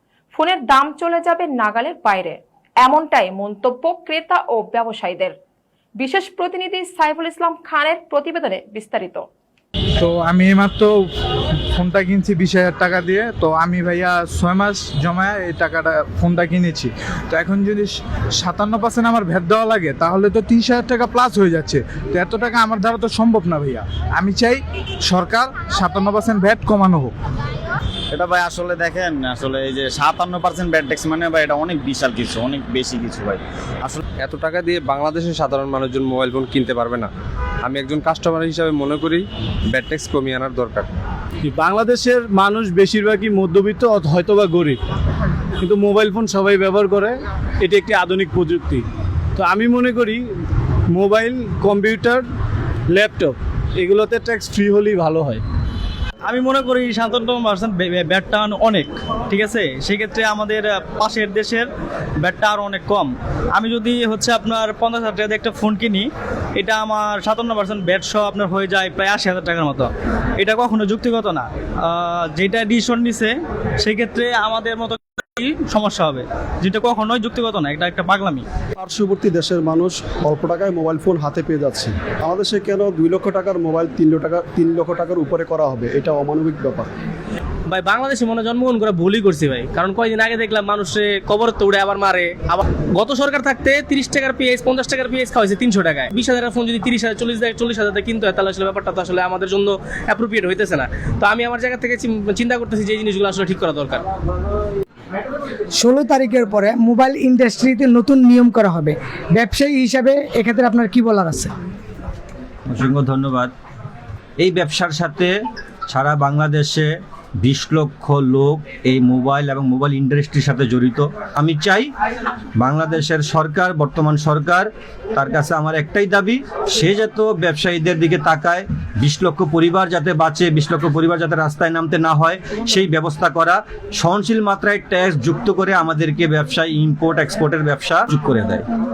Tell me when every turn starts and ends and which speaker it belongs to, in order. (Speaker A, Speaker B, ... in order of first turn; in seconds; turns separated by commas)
Speaker A: 0.3-5.3, Speaker A: 6.0-9.2, Speaker B: 10.0-10.9, Speaker B: 11.7-27.1, Speaker C: 28.1-34.0, Speaker D: 34.2-37.1, Speaker D: 37.6-40.9, Speaker E: 41.5-44.8, Speaker E: 45.6-48.8, Speaker E: 49.4-50.2, Speaker E: 51.0-52.2, Speaker E: 52.9-55.4, Speaker F: 56.2-61.7, Speaker F: 62.2-78.4, Speaker G: 78.8-86.9, Speaker H: 87.7-104.0, Speaker I: 105.7-111.5, Speaker J: 112.7-113.5, Speaker J: 114.4-115.3, Speaker J: 115.9-121.9, Speaker J: 122.6-138.6